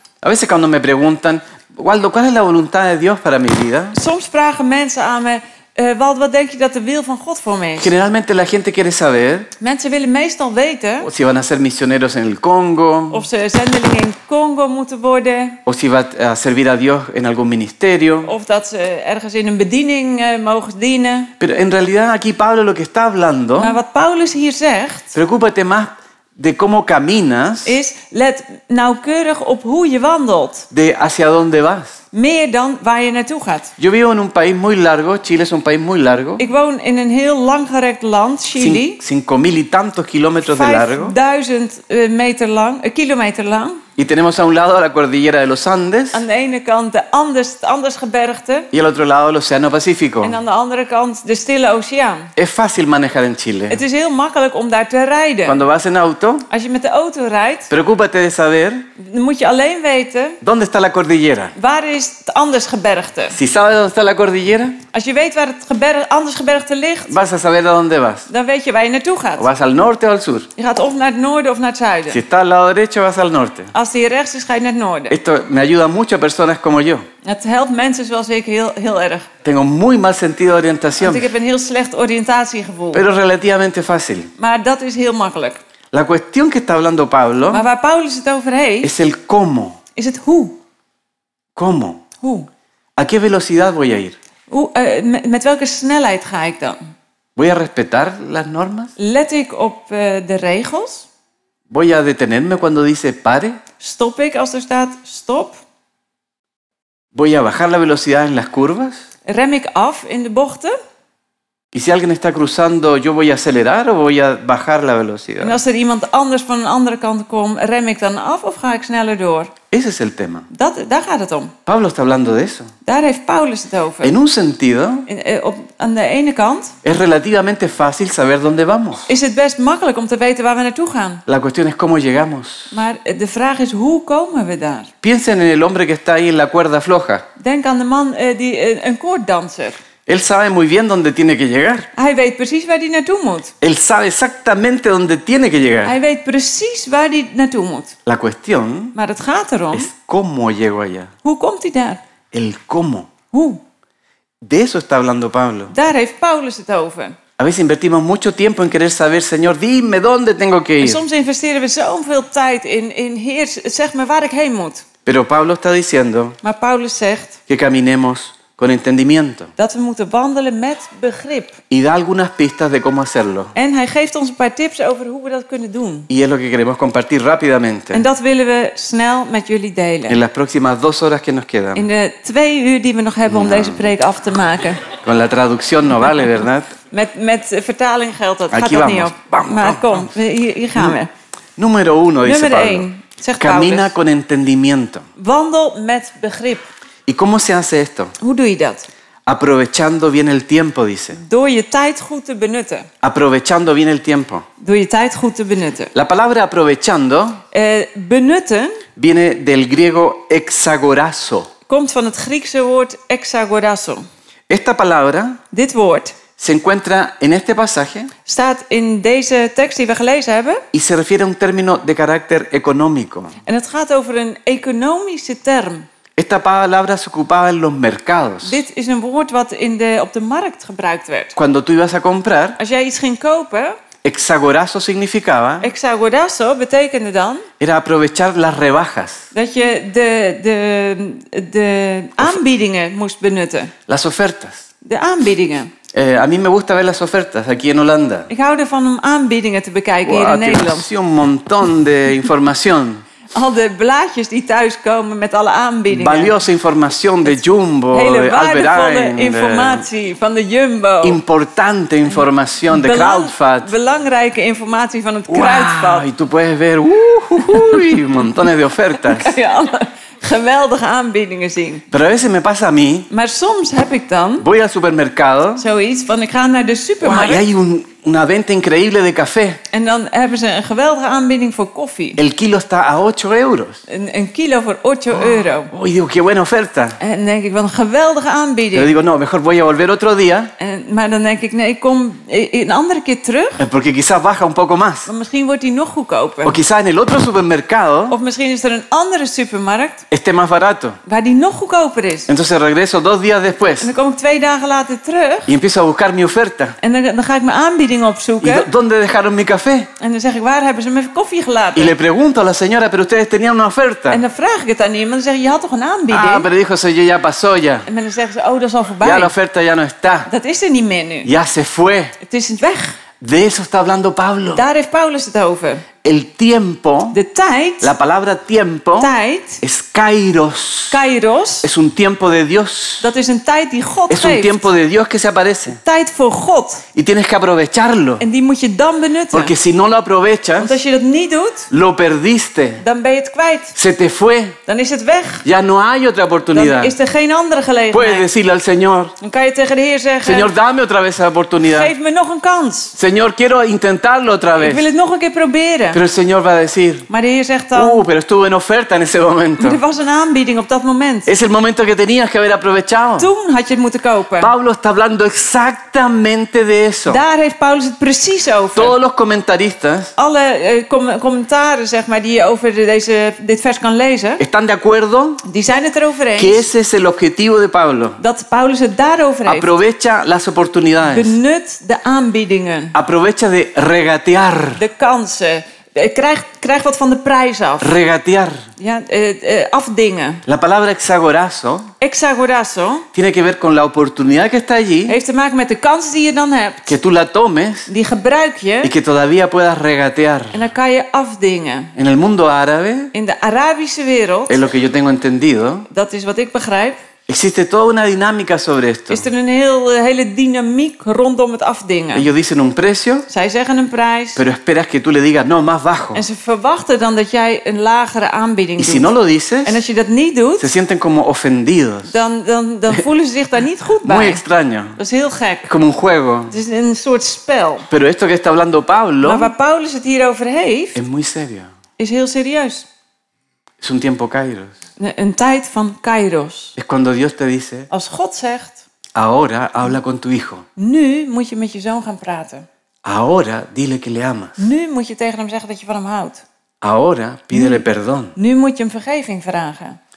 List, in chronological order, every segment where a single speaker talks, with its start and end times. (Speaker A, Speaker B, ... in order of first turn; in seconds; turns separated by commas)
Speaker A: 0.2-4.0, Speaker B: 3.9-7.9, Speaker A: 7.8-9.5, Speaker B: 9.6-11.1, Speaker A: 11.0-13.2, Speaker B: 13.1-15.6, Speaker A: 15.7-18.3, Speaker B: 18.2-21.3, Speaker A: 21.4-23.8, Speaker B: 23.6-25.1, Speaker A: 25.1-27.8, Speaker B: 27.6-30.7, Speaker A: 30.7-32.0, Speaker B: 32.1-33.7, Speaker A: 33.8-36.4, Speaker B: 36.4-39.0, Speaker A: 38.6-41.1, Speaker B: 40.4-43.8, Speaker A: 44.0-46.2, Speaker B: 46.1-48.7, Speaker A: 48.7-50.4, Speaker B: 50.2-52.3, Speaker A: 52.4-53.8, Speaker B: 53.7-55.6, Speaker A: 55.5-56.5, Speaker B: 56.5-57.7, Speaker A: 57.7-58.9, Speaker B: 59.0-60.4, Speaker A: 60.4-61.5, Speaker B: 61.5-63.4, Speaker A: 63.3-64.8, Speaker B: 64.9-67.1, Speaker A: 67.1-68.3, Speaker B: 68.3-69.5, Speaker A: 69.4-70.5, Speaker B: 70.5-72.2, Speaker A: 72.1-73.7, Speaker B: 73.7-75.2, Speaker A: 75.1-77.0, Speaker B: 77.2-79.3, Speaker A: 79.4-81.3, Speaker B: 81.0-83.0, Speaker A: 82.9-84.3, Speaker B: 84.4-85.6, Speaker A: 85.9-87.6, Speaker B: 87.5-88.9, Speaker A: 88.8-89.8, Speaker B: 90.0-90.6, Speaker A: 91.5-92.0, Speaker B: 92.2-92.5, Speaker A: 93.0-94.2, Speaker B: 94.5-96.8, Speaker A: 97.3-98.9, Speaker B: 99.0-101.0, Speaker A: 101.7-103.6, Speaker B: 103.8-105.6, Speaker A: 107.1-109.0, Speaker B: 109.2-110.7, Speaker A: 111.7-115.6, Speaker B: 115.4-119.5, Speaker A: 119.7-120.5, Speaker B: 120.5-121.5, Speaker A: 121.7-122.7, Speaker B: 122.8-124.2, Speaker A: 124.0-125.1, Speaker B: 125.1-126.7, Speaker A: 126.8-129.1, Speaker B: 129.1-131.2, Speaker A: 131.2-132.7, Speaker B: 132.7-134.9, Speaker A: 135.0-137.2, Speaker B: 137.4-139.8, Speaker A: 140.1-141.9, Speaker B: 141.9-143.5, Speaker A: 143.6-145.9, Speaker B: 145.8-147.9, Speaker A: 148.1-148.9, Speaker B: 148.9-149.9, Speaker A: 149.7-151.1, Speaker B: 151.2-152.0, Speaker A: 152.3-153.1, Speaker B: 153.3-153.6, Speaker A: 154.4-155.7, Speaker B: 155.7-157.2, Speaker A: 157.4-161.0, Speaker B: 160.8-164.8, Speaker A: 165.0-166.4, Speaker B: 166.4-167.4, Speaker A: 167.5-169.5, Speaker B: 169.6-171.6, Speaker A: 171.7-173.5, Speaker B: 173.5-176.1, Speaker A: 176.1-178.0, Speaker B: 177.9-180.2, Speaker A: 180.1-181.8, Speaker B: 181.7-184.8, Speaker A: 183.3-183.9, Speaker A: 185.0-186.7, Speaker B: 186.9-191.1, Speaker A: 188.5-190.1, Speaker A: 191.6-192.9, Speaker B: 192.2-193.9, Speaker A: 193.4-195.1, Speaker B: 195.2-196.6, Speaker A: 197.1-198.1, Speaker B: 198.2-198.9, Speaker A: 199.2-201.2, Speaker B: 201.1-202.9, Speaker A: 203.0-204.4, Speaker B: 204.6-205.9, Speaker A: 205.9-207.4, Speaker B: 207.5-208.8, Speaker A: 208.9-211.5, Speaker B: 211.7-214.0, Speaker A: 214.5-215.4, Speaker B: 215.5-216.2, Speaker A: 216.4-218.1, Speaker B: 218.2-220.6, Speaker A: 220.7-223.3, Speaker B: 223.4-225.8, Speaker A: 226.2-228.6, Speaker B: 228.4-231.3, Speaker A: 231.3-232.6, Speaker B: 232.6-233.8, Speaker A: 234.0-235.7, Speaker B: 235.6-237.4, Speaker A: 237.6-239.3, Speaker B: 239.3-243.7, Speaker A: 243.9-244.7, Speaker B: 244.8-245.7, Speaker A: 245.9-248.3, Speaker B: 248.3-250.9, Speaker A: 250.0-253.0, Speaker B: 253.3-256.3, Speaker A: 255.9-259.8, Speaker B: 257.9-261.2, Speaker A: 261.0-263.7, Speaker B: 262.7-266.1, Speaker A: 265.3-269.3, Speaker B: 267.4-268.0, Speaker B: 268.9-271.8, Speaker A: 271.9-273.1, Speaker B: 273.1-274.4, Speaker A: 274.4-275.6, Speaker B: 275.6-277.4, Speaker A: 277.0-279.6, Speaker B: 279.7-282.2, Speaker A: 282.2-283.8, Speaker B: 283.9-285.7, Speaker A: 285.2-287.0, Speaker B: 287.0-288.9, Speaker A: 288.7-290.5, Speaker B: 290.6-293.6, Speaker A: 293.6-295.1, Speaker B: 295.1-296.6, Speaker A: 296.4-298.2, Speaker B: 298.1-300.0, Speaker A: 300.1-301.0, Speaker B: 301.1-302.3, Speaker A: 302.3-303.9, Speaker B: 303.8-305.5, Speaker A: 305.5-306.8, Speaker B: 306.8-308.7, Speaker A: 308.4-309.9, Speaker B: 310.0-311.9, Speaker A: 311.7-314.2, Speaker B: 314.1-316.5, Speaker A: 316.1-317.9, Speaker B: 317.9-319.3, Speaker A: 319.0-320.3, Speaker B: 320.3-321.3, Speaker A: 321.2-322.2, Speaker B: 322.2-323.0, Speaker A: 323.2-324.6, Speaker B: 324.5-325.8, Speaker A: 326.0-327.2, Speaker B: 327.1-327.9, Speaker A: 327.8-331.0, Speaker B: 329.0-329.6, Speaker B: 330.9-331.7, Speaker A: 331.6-333.1, Speaker B: 333.0-334.7, Speaker A: 334.1-335.8, Speaker B: 335.8-336.8, Speaker A: 336.9-338.2, Speaker B: 338.2-339.5, Speaker A: 339.3-340.8, Speaker B: 340.6-341.7, Speaker A: 341.7-342.8, Speaker B: 342.8-343.8, Speaker A: 343.8-344.6, Speaker B: 344.7-345.4, Speaker A: 345.4-346.9, Speaker B: 346.5-348.3, Speaker A: 347.9-349.1, Speaker B: 349.2-350.5, Speaker A: 350.2-351.9, Speaker B: 351.7-352.9, Speaker A: 352.9-354.8, Speaker B: 354.6-356.0, Speaker A: 355.9-357.1, Speaker B: 357.1-358.0, Speaker A: 357.7-359.8, Speaker B: 359.6-361.3, Speaker A: 361.3-363.3, Speaker B: 363.2-364.5, Speaker A: 364.4-367.2, Speaker B: 367.1-368.9, Speaker A: 368.7-370.1, Speaker B: 370.2-374.4, Speaker A: 374.4-375.4, Speaker B: 375.4-376.6, Speaker A: 376.4-378.2, Speaker B: 378.2-379.7, Speaker A: 379.5-381.4, Speaker B: 381.0-382.9, Speaker A: 382.9-384.8, Speaker B: 384.8-387.9, Speaker A: 387.8-388.7, Speaker B: 388.8-390.4, Speaker A: 390.4-391.9, Speaker B: 392.0-393.1, Speaker A: 393.1-395.2, Speaker B: 395.1-396.9, Speaker A: 396.9-397.9, Speaker B: 397.9-398.9, Speaker A: 398.8-400.6, Speaker B: 400.5-401.9, Speaker A: 401.9-403.1, Speaker B: 403.1-404.6, Speaker A: 404.5-405.9, Speaker B: 405.9-407.0, Speaker A: 407.3-409.2, Speaker B: 409.1-412.3, Speaker A: 412.1-413.3, Speaker B: 413.3-414.4, Speaker A: 414.4-416.2, Speaker B: 416.1-420.7, Speaker A: 418.8-419.8, Speaker A: 420.6-422.2, Speaker B: 422.1-424.4, Speaker A: 424.0-425.0, Speaker B: 425.0-425.7, Speaker A: 425.6-426.5, Speaker B: 426.5-427.9, Speaker A: 427.9-429.5, Speaker B: 429.2-431.0, Speaker A: 430.9-431.7, Speaker B: 432.0-432.9, Speaker A: 433.8-434.8, Speaker B: 435.0-436.7, Speaker A: 436.8-437.9, Speaker B: 437.9-438.8, Speaker A: 439.1-440.6, Speaker B: 440.8-442.6, Speaker A: 443.0-444.6, Speaker B: 444.6-446.4, Speaker A: 446.8-448.3, Speaker B: 447.5-447.8, Speaker B: 448.4-450.0